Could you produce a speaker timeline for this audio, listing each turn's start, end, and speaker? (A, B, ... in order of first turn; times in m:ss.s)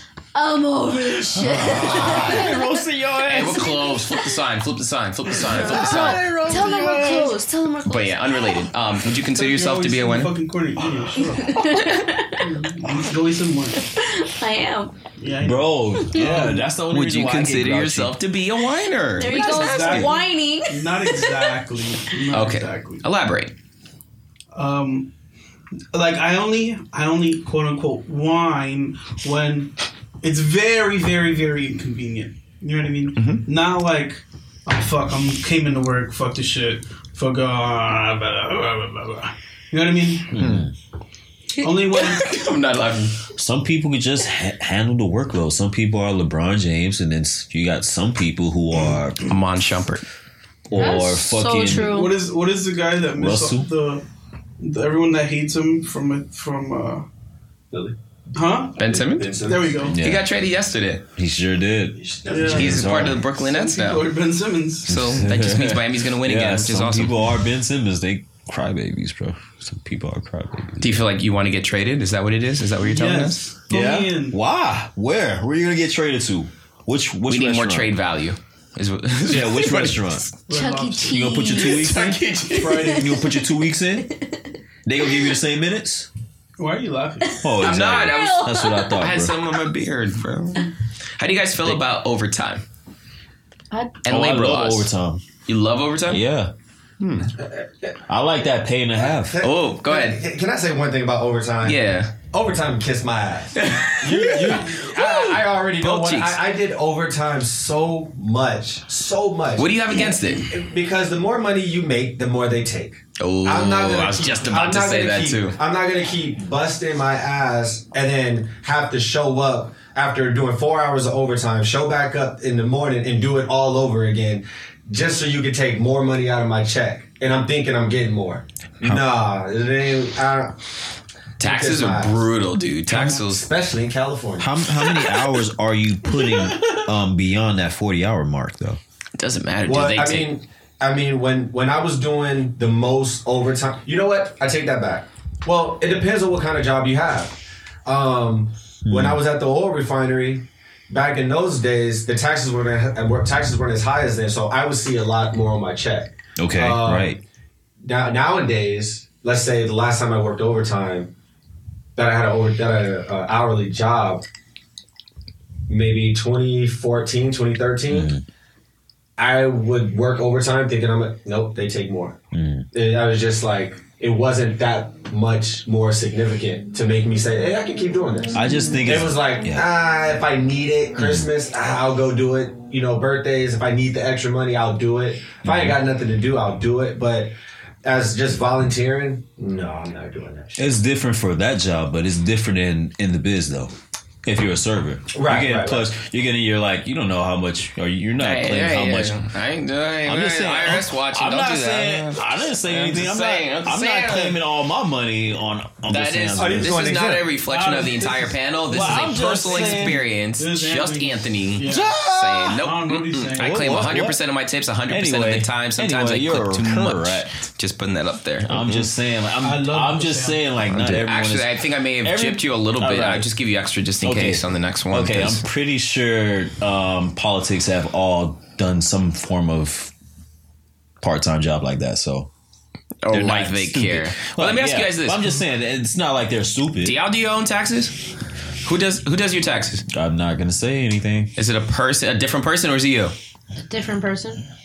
0:00.3-0:02.7 A
0:01.4-0:04.0 B
0:01.5-0:02.6 C
0:03.2-0:06.4 C
0:05.4-0:07.4 B
0:05.4-0:08.6 A
0:07.9-0:10.4 C
0:09.2-0:11.6 D
0:11.3-0:12.5 A
0:12.4-0:13.8 D
0:13.8-0:15.0 A
0:15.2-0:16.7 D
0:15.4-0:18.2 B
0:15.9-0:16.2 A
0:16.9-0:20.1 C
0:19.2-0:21.5 A
0:19.2-0:23.0 D
0:22.3-0:23.5 C
0:24.5-0:25.1 D
0:25.9-0:40.4 D
0:33.2-0:33.4 C
0:40.3-0:40.7 B
0:40.4-0:40.7 C
0:41.6-0:42.4 D
0:41.9-0:43.2 C
0:43.4-0:49.4 B
0:49.3-0:50.0 C
0:50.7-0:51.9 B
0:50.8-0:52.2 A
0:51.6-0:54.0 D
0:53.2-0:53.7 B
0:54.6-0:57.1 D
0:58.3-0:58.8 D
0:58.8-0:59.4 C
0:58.8-0:59.9 E
0:59.4-1:00.0 D
0:59.9-1:00.3 B
0:59.9-1:01.1 C
1:01.2-1:03.2 B
1:02.0-1:03.1 E
1:02.3-1:04.9 D
1:02.4-1:04.1 C
1:04.9-1:07.1 C
1:04.9-1:10.9 B
1:10.8-1:13.5 C
1:12.9-1:14.4 D
1:13.7-1:17.9 B
1:17.3-1:20.2 C
1:19.3-1:20.3 B
1:20.5-1:21.3 D
1:20.5-1:21.9 A
1:21.0-1:22.2 B
1:21.4-1:23.0 C
1:22.5-1:23.4 A
1:22.5-1:23.1 D
1:22.7-1:24.1 B
1:24.8-1:26.1 B
1:26.6-1:27.5 D
1:27.2-1:29.0 A
1:27.4-1:29.4 B
1:27.6-1:32.6 C
1:33.7-1:34.0 A
1:34.0-1:34.9 C
1:34.1-1:35.2 B
1:35.4-1:36.2 C
1:36.1-1:36.5 B
1:37.0-1:37.3 C
1:37.4-1:37.9 E
1:38.1-1:39.4 B
1:39.1-2:10.6 E
1:39.4-1:40.2 C
1:41.6-1:42.1 C
1:43.6-1:46.4 C
1:44.2-1:44.6 B
1:49.6-1:50.5 C
1:53.2-1:55.6 C
2:11.4-2:12.2 E
2:11.4-2:13.5 C
2:12.9-2:14.6 E
2:14.4-2:18.8 B
2:16.2-2:16.8 D
2:19.2-2:20.3 C
2:19.6-2:37.2 E
2:28.9-2:29.2 B
2:36.4-2:37.2 B
2:37.8-2:41.1 E
2:42.0-2:44.2 E
2:45.7-2:48.1 E
2:47.9-2:48.2 B
2:49.2-2:52.2 E
2:52.3-2:52.7 B
2:52.7-3:07.3 E
2:58.3-2:59.7 B
3:01.0-3:01.3 B
3:05.4-3:05.8 B
3:07.8-3:10.7 E
3:10.6-3:13.7 B
3:14.2-3:19.2 B
3:15.1-3:15.9 E
3:18.2-3:24.4 C
3:20.1-3:26.9 B
3:25.9-3:38.9 C
3:26.4-3:27.3 E
3:27.4-3:32.0 D
3:28.7-3:30.1 B
3:31.7-3:32.6 B
3:32.6-3:33.6 D
3:33.4-3:34.2 B
3:34.9-3:37.3 B
3:38.4-3:43.3 B
3:39.4-3:40.5 D
3:40.7-3:45.4 C
3:44.0-3:49.9 B
3:51.0-3:52.3 B
3:53.0-3:55.4 C
3:53.1-3:57.0 B
3:56.8-3:58.0 C
3:58.6-3:59.8 C
3:59.9-4:01.3 B
4:01.4-4:03.1 C
4:03.6-4:04.4 A